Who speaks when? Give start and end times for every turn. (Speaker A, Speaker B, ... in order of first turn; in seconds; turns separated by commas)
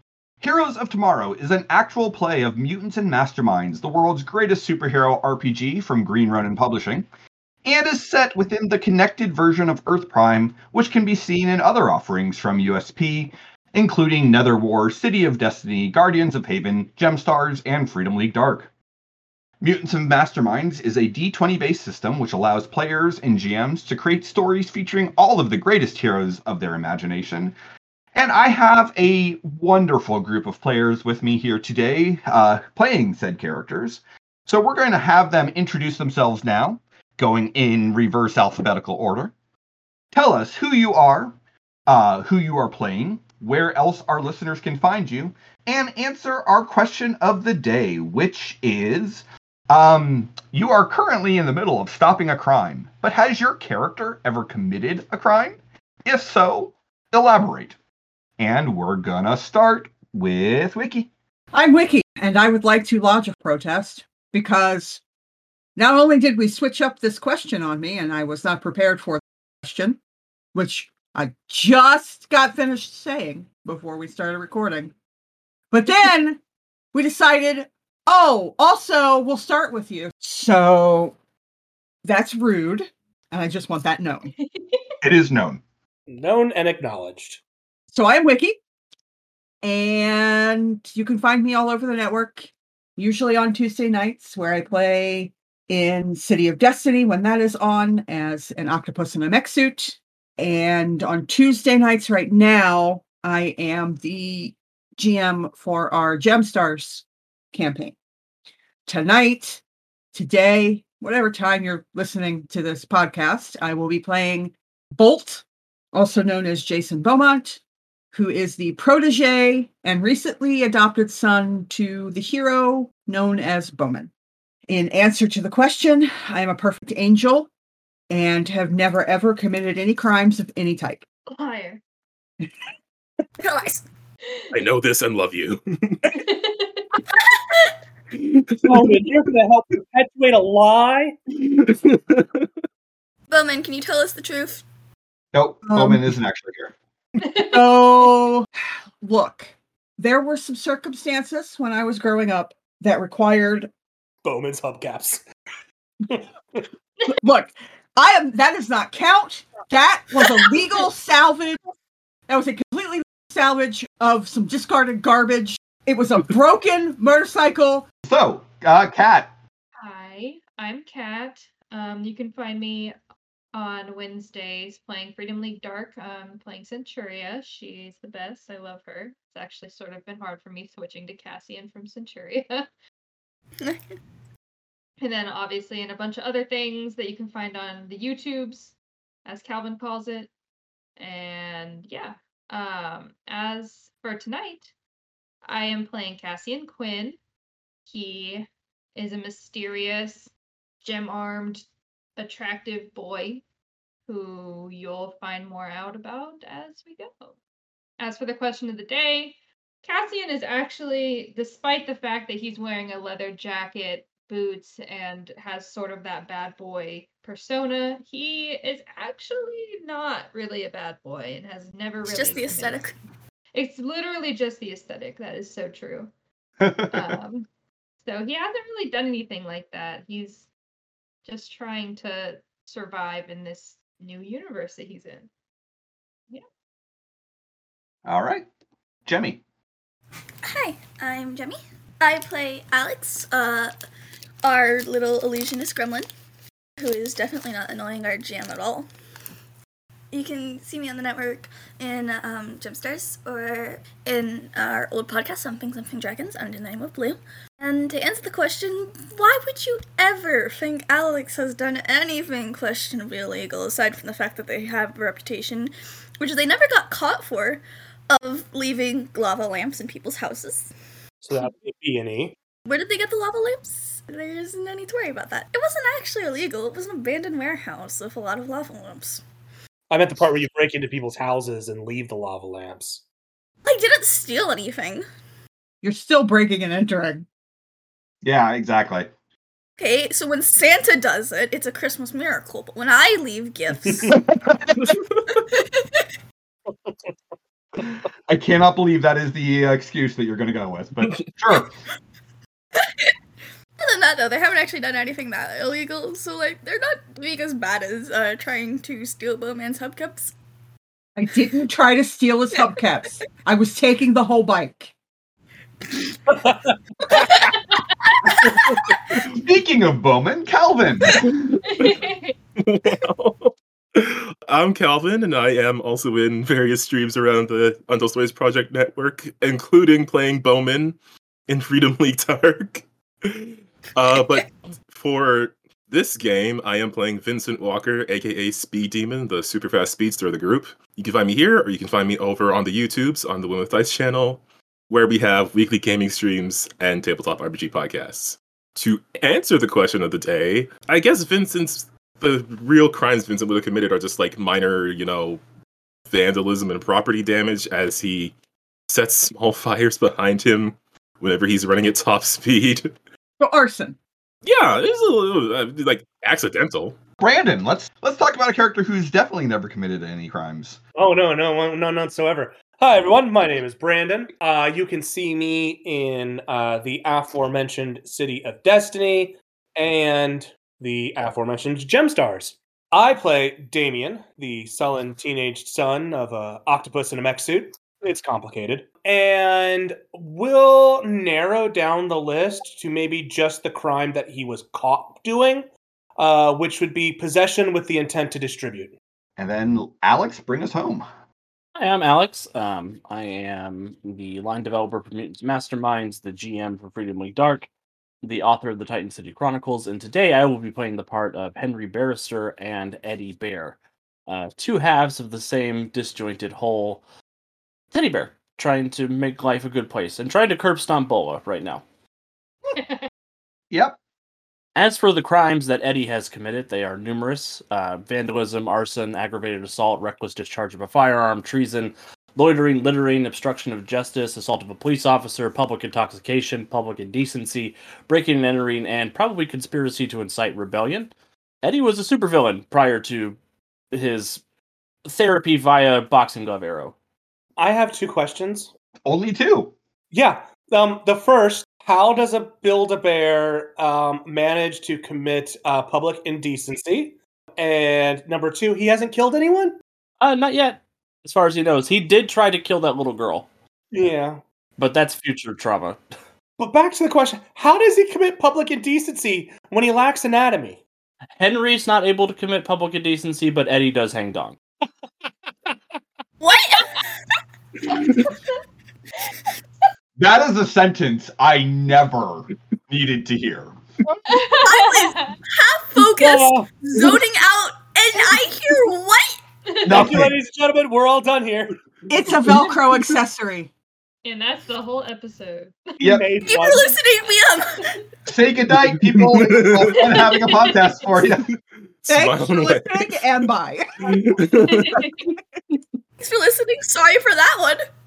Speaker A: 0.4-7.1, Speaker A: 7.6-18.7, Speaker A: 19.6-27.5, Speaker A: 28.1-39.3, Speaker A: 40.1-41.3, Speaker A: 41.9-57.7, Speaker A: 58.4-61.1, Speaker B: 61.5-65.0, Speaker B: 65.8-70.0, Speaker B: 70.5-74.9, Speaker B: 75.7-76.4, Speaker B: 76.9-81.2, Speaker B: 82.0-84.3, Speaker C: 84.5-84.8, Speaker A: 85.0-85.6, Speaker D: 86.1-87.4, Speaker B: 87.9-88.6, Speaker B: 89.6-107.9, Speaker B: 108.8-109.6, Speaker B: 110.1-117.6, Speaker B: 118.1-124.1, Speaker B: 124.7-127.5, Speaker B: 128.1-131.0, Speaker C: 131.3-131.8, Speaker E: 133.4-133.8, Speaker F: 134.5-136.1, Speaker C: 136.1-136.9, Speaker F: 138.1-139.0, Speaker D: 138.6-141.2, Speaker F: 141.3-142.4, Speaker E: 143.3-144.6, Speaker A: 145.3-146.7, Speaker B: 145.7-146.1, Speaker C: 147.2-147.6, Speaker B: 147.4-148.5, Speaker B: 149.0-153.7, Speaker D: 154.2-155.2, Speaker D: 156.1-156.6, Speaker B: 157.2-161.6, Speaker B: 162.3-167.8, Speaker A: 168.1-169.3, Speaker C: 169.8-172.9, Speaker C: 173.5-182.7, Speaker C: 185.0-188.7, Speaker C: 189.2-190.3, Speaker C: 191.0-194.7, Speaker C: 195.4-197.2, Speaker C: 197.8-200.3, Speaker C: 200.8-201.7, Speaker C: 202.2-203.4, Speaker C: 204.1-207.3, Speaker C: 208.0-222.8, Speaker E: 222.1-222.9, Speaker C: 223.5-226.1, Speaker A: 226.6-227.1, Speaker C: 226.9-227.5, Speaker C: 228.0-230.5, Speaker C: 231.2-235.3, Speaker A: 238.0-238.5, Speaker A: 239.1-239.4, Speaker E: 240.4-243.7, Speaker E: 244.4-246.1, Speaker E: 246.8-248.9, Speaker E: 250.1-270.7, Speaker D: 271.2-272.4, Speaker E: 272.6-279.2, Speaker D: 279.9-283.0, Speaker E: 283.6-285.0, Speaker B: 285.8-287.2, Speaker A: 288.2-289.1, Speaker E: 289.8-294.2, Speaker E: 295.4-295.8, Speaker A: 298.3-301.7, Speaker E: 302.8-303.0, Speaker E: 303.8-310.3, Speaker B: 311.1-314.9, Speaker D: 316.4-316.7, Speaker C: 317.2-317.9, Speaker E: 318.4-318.7, Speaker A: 319.2-321.5, Speaker F: 321.1-321.9, Speaker C: 321.6-322.3, Speaker F: 322.6-331.0, Speaker F: 331.5-355.4, Speaker F: 356.1-358.3, Speaker F: 358.9-362.9, Speaker B: 363.4-364.0, Speaker F: 364.4-367.0, Speaker A: 367.2-370.8, Speaker D: 370.9-395.7, Speaker D: 396.2-398.9, Speaker A: 399.4-401.0, Speaker G: 401.8-407.7, Speaker G: 408.2-417.0, Speaker G: 417.9-421.8, Speaker C: 422.8-423.0, Speaker A: 423.7-424.0, Speaker G: 424.8-441.1, Speaker G: 441.6-443.4, Speaker G: 443.9-444.4, Speaker G: 445.0-446.9, Speaker D: 447.6-448.7, Speaker A: 449.1-449.7, Speaker D: 450.1-459.8, Speaker G: 460.2-463.5, Speaker D: 463.9-464.4, Speaker G: 464.8-466.0, Speaker D: 466.6-470.8, Speaker G: 471.4-474.6, Speaker E: 476.4-477.0, Speaker A: 480.2-483.7, Speaker C: 484.3-485.4, Speaker E: 484.3-489.4, Speaker D: 486.0-486.7, Speaker C: 489.7-490.1, Speaker A: 489.9-490.3, Speaker D: 489.9-491.8, Speaker B: 492.1-493.7, Speaker C: 494.2-496.1, Speaker D: 496.0-496.9, Speaker A: 496.0-496.3, Speaker E: 496.4-497.9, Speaker A: 498.2-501.5, Speaker F: 498.9-500.2, Speaker C: 500.3-500.7, Speaker F: 502.0-503.2, Speaker B: 502.1-504.2, Speaker F: 504.0-505.1, Speaker C: 504.5-505.2, Speaker E: 506.2-507.8